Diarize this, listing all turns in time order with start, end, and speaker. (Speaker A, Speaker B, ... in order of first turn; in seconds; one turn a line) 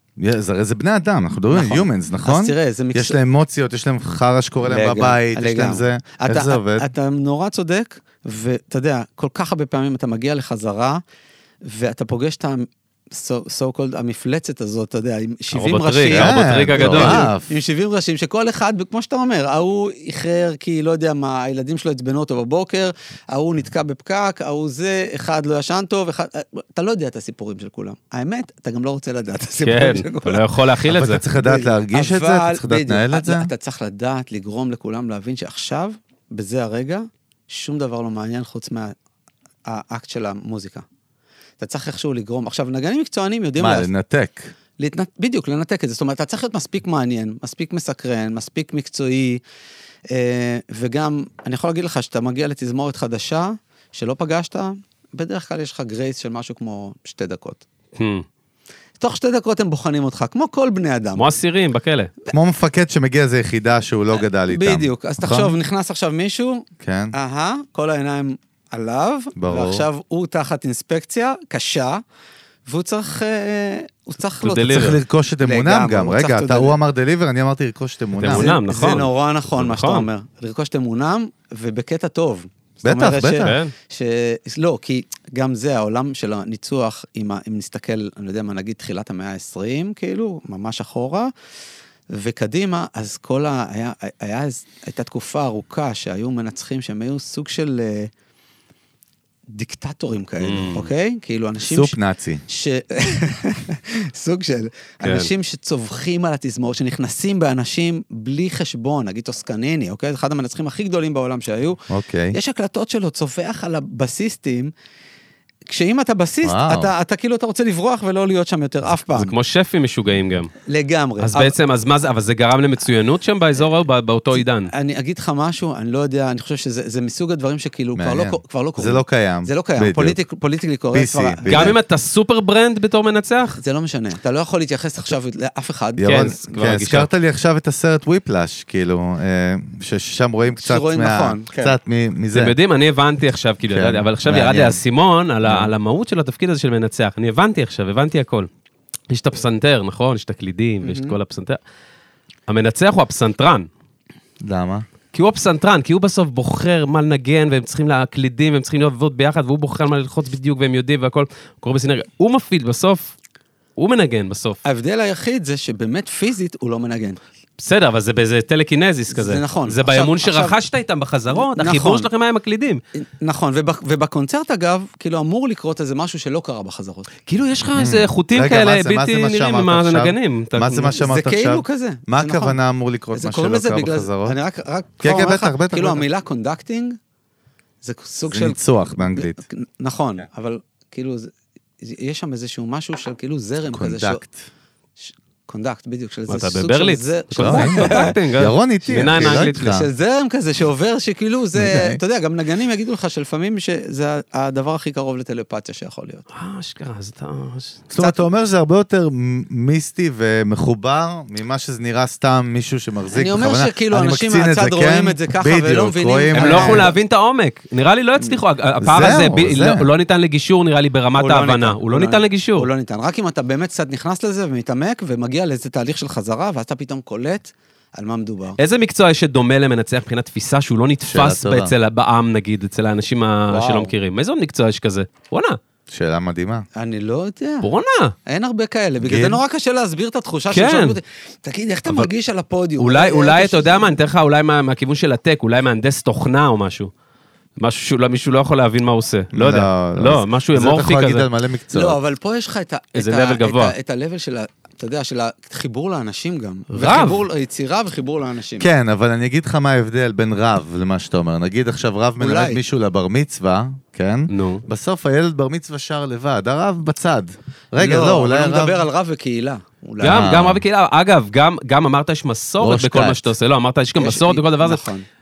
Speaker A: 0.2-6.8
Speaker B: 1.5-3.2
Speaker B: 4.6-11.0
Speaker B: 11.6-30.4
Speaker C: 15.5-17.2
Speaker A: 16.1-17.5
Speaker C: 29.6-31.2
Speaker A: 30.9-33.5
Speaker B: 31.3-38.9
Speaker B: 39.6-40.8
Speaker B: 41.6-43.9
Speaker A: 43.6-44.5
Speaker B: 44.8-49.4
Speaker B: 50.1-57.6
Speaker C: 58.0-58.2
Speaker B: 59.0-61.2
Speaker C: 61.2-62.1
Speaker A: 62.3-65.5
Speaker B: 64.5-72.0
Speaker A: 66.8-67.1
Speaker A: 69.3-69.8
Speaker B: 72.7-74.8
Speaker C: 74.4-75.0
Speaker A: 74.7-78.5
Speaker B: 75.4-76.8
Speaker C: 78.2-80.1
Speaker B: 78.2-91.3
Speaker A: 82.8-83.5
Speaker C: 83.4-83.7
Speaker B: 92.1-98.1
Speaker B: 99.5-114.7
Speaker C: 100.4-100.9
Speaker A: 101.6-102.4
Speaker C: 105.0-105.3
Speaker A: 111.9-112.3
Speaker B: 115.7-119.3
Speaker A: 116.4-116.9
Speaker C: 119.1-120.5
Speaker B: 120.7-121.5
Speaker C: 121.2-124.7
Speaker B: 124.3-131.8
Speaker A: 128.0-130.2
Speaker A: 130.9-131.8
Speaker C: 131.4-133.6
Speaker B: 133.6-136.3
Speaker A: 136.0-142.5
Speaker C: 136.0-137.1
Speaker B: 140.5-141.7
Speaker C: 142.3-148.5
Speaker A: 143.7-144.8
Speaker A: 145.4-145.7
Speaker C: 149.1-151.6
Speaker B: 150.8-151.2
Speaker C: 152.5-153.7
Speaker A: 154.4-154.8
Speaker C: 155.1-163.1
Speaker C: 163.8-164.6
Speaker B: 164.6-167.2
Speaker C: 167.6-172.8
Speaker B: 169.1-170.6
Speaker B: 171.3-172.1
Speaker B: 172.9-177.1
Speaker C: 177.3-180.9
Speaker A: 177.8-184.3
Speaker B: 180.9-182.6
Speaker B: 183.1-187.0
Speaker A: 185.0-186.0
Speaker B: 187.8-194.2
Speaker A: 188.3-189.4
Speaker A: 193.7-194.5
Speaker B: 195.0-198.2
Speaker C: 196.3-199.7
Speaker A: 197.4-199.9
Speaker B: 198.9-206.2
Speaker A: 201.5-202.0
Speaker C: 206.3-207.8
Speaker A: 207.9-216.9
Speaker B: 207.9-208.2
Speaker B: 213.1-216.9
Speaker C: 216.3-222.7
Speaker A: 218.8-219.9
Speaker B: 221.1-228.6
Speaker C: 228.6-235.6
Speaker A: 231.1-231.7
Speaker B: 233.5-233.9
Speaker A: 235.9-236.7
Speaker B: 236.8-237.7
Speaker C: 237.6-238.1
Speaker B: 238.2-243.9
Speaker A: 239.0-239.4
Speaker C: 240.5-241.0
Speaker C: 242.8-246.9
Speaker C: 247.6-251.3
Speaker A: 249.3-252.0
Speaker B: 251.7-258.7
Speaker C: 252.9-253.7
Speaker C: 256.7-257.2
Speaker A: 258.6-268.8
Speaker B: 262.2-262.6
Speaker C: 264.3-264.6
Speaker B: 267.8-270.3
Speaker C: 270.0-274.8
Speaker A: 270.0-270.6
Speaker A: 272.6-273.2
Speaker B: 274.0-275.1